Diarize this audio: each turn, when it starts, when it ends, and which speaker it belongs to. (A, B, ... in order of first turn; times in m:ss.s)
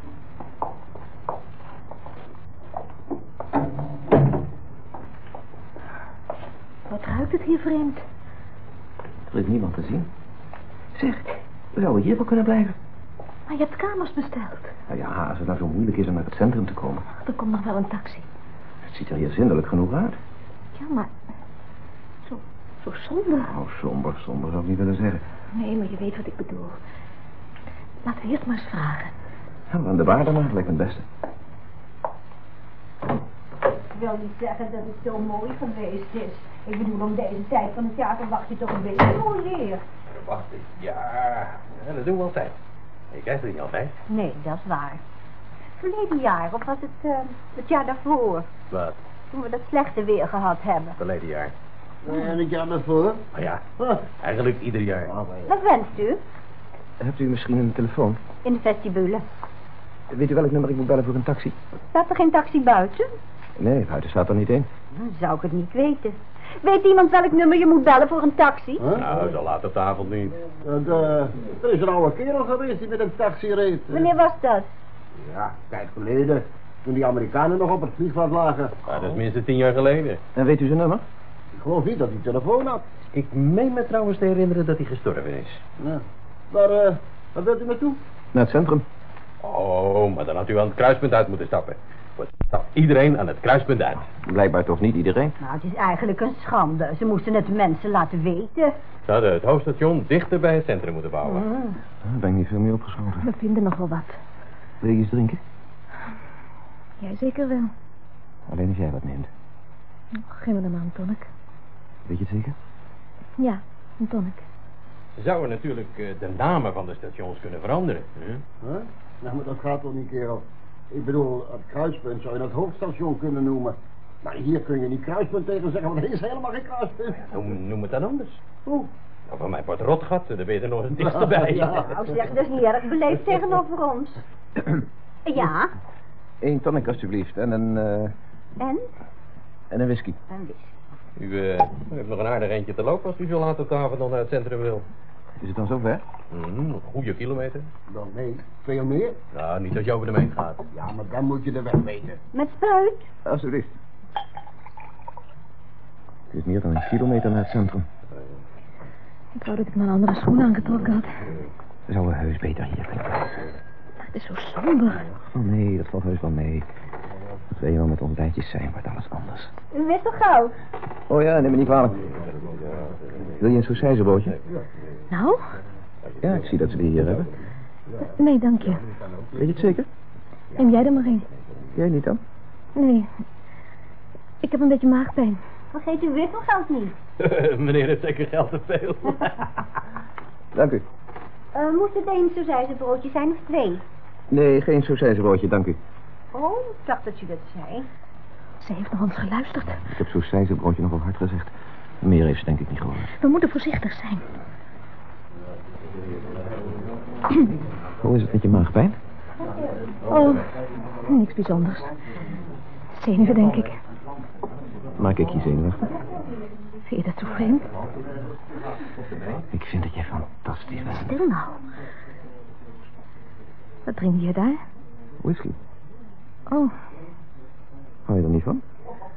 0:06.9-0:08.0 A
0:09.3-0:10.1 B
0:10.9-0:12.8 B
0:13.5-0:14.7 A
0:14.9-0:17.0 B
0:17.2-0:18.2 A
0:18.8-0:20.2 B
0:20.7-0:21.1 A
0:22.2-0:23.5 A
0:23.4-0:25.2 B
0:25.5-0:26.8 A
0:28.0-0:29.1 A
0:29.7-0:31.0 B
0:33.9-0:35.6 C
0:35.6-0:38.8 A
0:36.8-0:37.5 C
0:38.8-0:39.8 C
0:40.1-0:42.5 D
0:43.1-0:43.9 D
0:44.1-0:45.0 C
0:45.8-0:48.5 C
0:48.7-0:49.0 D
0:49.3-0:51.0 C
0:51.0-0:51.5 D
0:52.0-0:53.2 E
0:53.3-0:55.1 D
0:55.1-0:55.5 E
0:55.4-0:56.2 C
0:57.0-0:58.2 B
0:58.4-0:59.2 C
1:00.1-1:01.6 B
1:01.9-1:03.1 C
1:03.6-1:04.7 B
1:04.9-1:09.0 C
1:08.8-1:09.0 E
1:09.0-1:10.4 D
1:10.6-1:14.1 E
1:13.9-1:14.7 C
1:15.2-1:18.7 E
1:18.9-1:20.2 D
1:20.3-1:21.0 B
1:21.5-1:22.8 E
1:23.1-1:25.6 D
1:25.8-1:28.0 E
1:28.3-1:28.8 B
1:29.4-1:34.0 D
1:34.1-1:35.4 B
1:35.4-1:38.7 C
1:39.0-1:41.5 D
1:41.3-1:41.8 C
1:42.0-1:43.3 B
1:43.2-1:44.2 A
1:44.8-1:45.4 B
1:47.0-1:47.7 A
1:48.5-1:49.3 B
1:50.2-1:51.3 A
1:52.0-1:52.5 B
1:53.4-1:54.4 A
1:55.2-1:58.4 D
1:58.6-2:07.2 E
2:07.2-2:08.4 D
2:09.3-2:11.8 D
2:11.5-2:14.2 C
2:15.2-2:15.7 C
2:16.4-2:18.1 B
2:18.6-2:18.9 C
2:19.7-2:20.2 B
2:20.3-2:20.7 C
2:21.2-2:24.8 D
2:25.4-2:26.0 B
2:26.3-2:27.7 D
2:27.9-2:29.2 E
2:29.3-2:30.6 D
2:30.7-2:32.2 E
2:32.3-2:33.1 C
2:33.2-2:33.7 B
2:36.3-2:37.9 B
2:39.4-2:41.2 A
2:41.9-2:43.4 B
2:44.1-2:45.0 A
2:45.2-2:46.7 B
2:47.5-2:49.5 B
2:49.7-2:50.5 C
2:51.1-2:52.1 B
2:52.4-2:53.2 D
2:53.4-2:54.3 B
2:55.1-2:55.4 A
2:56.2-2:57.3 B
2:58.2-2:58.8 A
2:58.6-2:59.5 E
2:59.3-2:59.9 B
3:00.6-3:01.2 A
3:01.7-3:02.2 B
3:02.8-3:03.1 A
3:04.4-3:05.4 A
3:05.7-3:07.0 C
3:07.2-3:09.4 D
3:10.5-3:10.8 B
3:11.5-3:13.8 C
3:14.3-3:15.8 B
3:16.3-3:17.9 C
3:18.6-3:19.8 A
3:19.9-3:21.5 B
3:22.0-3:23.1 B
3:23.1-3:24.2 A
3:28.0-3:29.0 B
3:30.0-3:30.4 A
3:31.0-3:31.9 A
3:32.9-3:33.7 A
3:35.0-3:35.9 B
3:36.9-3:37.7 A
3:39.5-3:41.1 B
3:40.9-3:41.6 A
3:43.8-3:44.6 A
3:45.2-3:45.6 B
3:48.0-3:48.6 B